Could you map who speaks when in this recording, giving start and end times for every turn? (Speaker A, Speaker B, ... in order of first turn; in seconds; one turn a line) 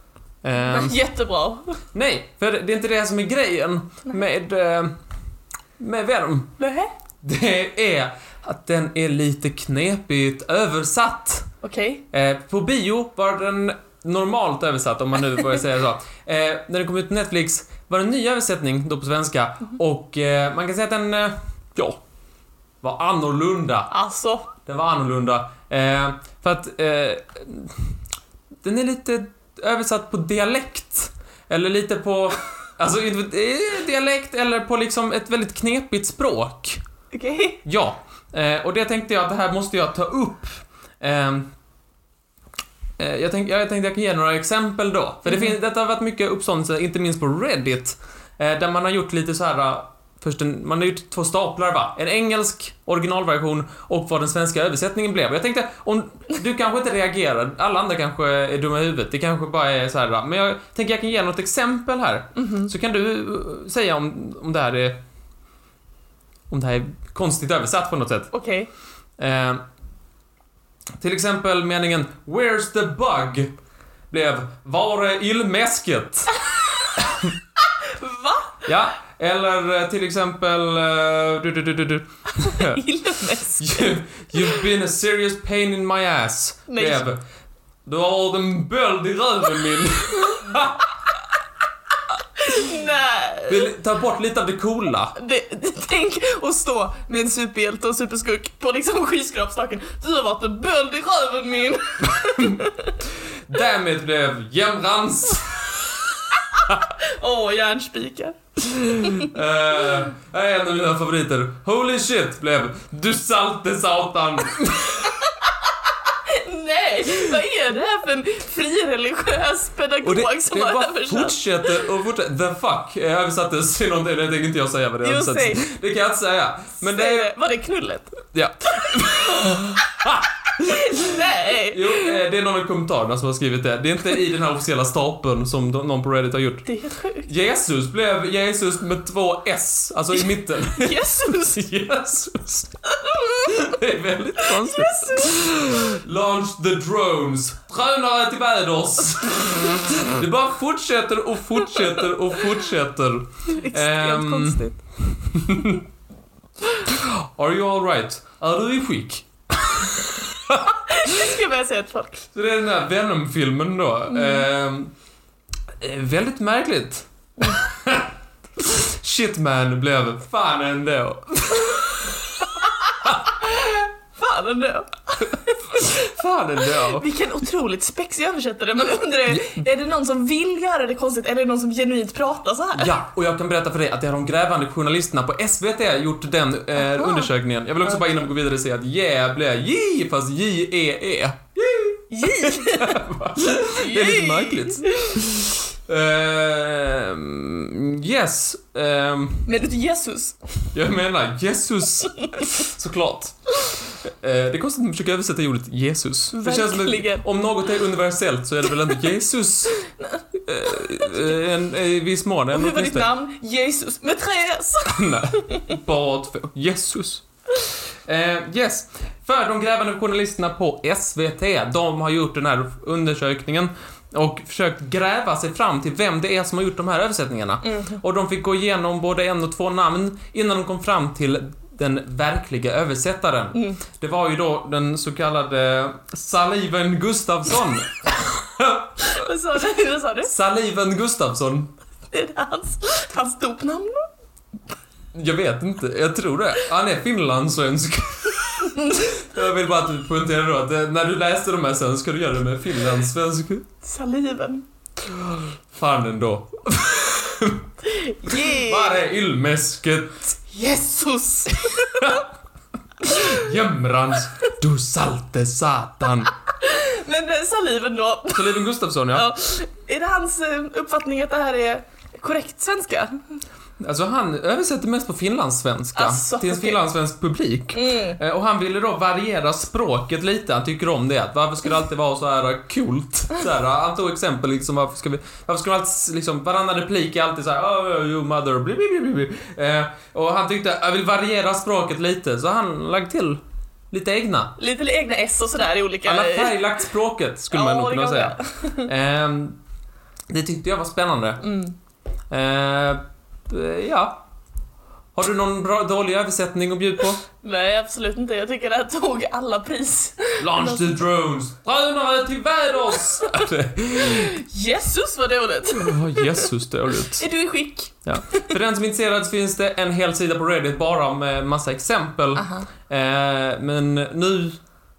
Speaker A: 0.4-1.0
Speaker B: 0.6-1.8
Speaker A: 1.9-4.9
Speaker A: 5.8-6.5
Speaker B: 6.6-6.9
Speaker A: 7.2-11.5
Speaker B: 11.6-12.0
Speaker A: 12.1-22.0
Speaker A: 22.8-23.9
Speaker B: 23.9-24.5
Speaker A: 24.7-27.9
Speaker A: 28.6-36.8
Speaker B: 37.1-37.6
Speaker A: 37.6-41.5
Speaker A: 43.0-65.0
Speaker B: 62.4-62.7
Speaker A: 66.5-68.3
Speaker B: 68.3-68.7
Speaker A: 69.2-69.6
Speaker A: 71.0-73.5
Speaker A: 74.1-76.4
Speaker A: 77.0-77.3
Speaker B: 77.9-78.7
Speaker A: 78.7-82.8
Speaker B: 82.4-83.9
Speaker A: 83.6-87.2
Speaker B: 86.7-87.0
Speaker A: 87.9-90.9
Speaker B: 92.4-93.7
Speaker A: 93.5-95.2
Speaker B: 95.2-103.0
Speaker A: 102.2-102.7
Speaker A: 103.5-106.7
Speaker B: 106.6-109.3
Speaker A: 108.8-115.3
Speaker B: 116.1-121.8
Speaker A: 120.0-127.3
Speaker B: 125.0-125.7
Speaker B: 126.8-128.2
Speaker A: 128.3-136.7
Speaker B: 130.6-132.2
Speaker B: 136.7-137.3
Speaker A: 137.3-142.7
Speaker B: 140.7-141.6
Speaker B: 143.0-143.7
Speaker A: 143.4-155.8
Speaker B: 144.4-145.7
Speaker B: 153.5-154.8
Speaker A: 156.8-161.3
Speaker B: 160.6-162.2
Speaker A: 162.3-164.9
Speaker B: 164.1-164.5
Speaker A: 165.8-173.2
Speaker B: 173.3-175.9
Speaker A: 175.7-177.1
Speaker B: 176.7-182.9
Speaker A: 179.3-179.6
Speaker A: 182.8-199.5
Speaker B: 186.8-187.3
Speaker B: 192.1-193.0
Speaker B: 193.7-195.2
Speaker B: 199.5-200.4
Speaker A: 200.7-209.8
Speaker B: 202.0-202.5
Speaker B: 206.3-207.2
Speaker B: 210.1-211.2
Speaker A: 210.4-213.1
Speaker B: 212.5-215.7
Speaker A: 214.9-217.2
Speaker A: 218.1-239.2
Speaker B: 227.6-228.0
Speaker B: 233.6-233.8
Speaker B: 239.0-240.3
Speaker A: 240.2-241.7
Speaker B: 242.1-244.1
Speaker A: 245.1-253.7
Speaker B: 248.7-249.2
Speaker B: 253.8-254.7
Speaker A: 255.0-257.7
Speaker B: 257.9-259.0
Speaker A: 258.3-260.4
Speaker B: 260.5-262.2
Speaker A: 263.0-266.3
Speaker B: 266.6-273.2
Speaker A: 268.3-269.3
Speaker A: 273.8-293.4
Speaker B: 275.9-276.8
Speaker B: 277.7-278.2
Speaker A: 293.9-294.6
Speaker B: 294.6-296.6
Speaker A: 296.1-299.6
Speaker B: 297.5-298.9
Speaker A: 300.3-301.4
Speaker B: 301.4-301.8
Speaker A: 302.3-304.2
Speaker A: 305.1-307.2
Speaker B: 307.4-311.0
Speaker A: 310.4-314.4
Speaker B: 313.2-313.4
Speaker B: 314.0-316.5
Speaker A: 315.7-317.3
Speaker B: 317.1-318.6
Speaker A: 318.1-324.6
Speaker B: 322.4-322.7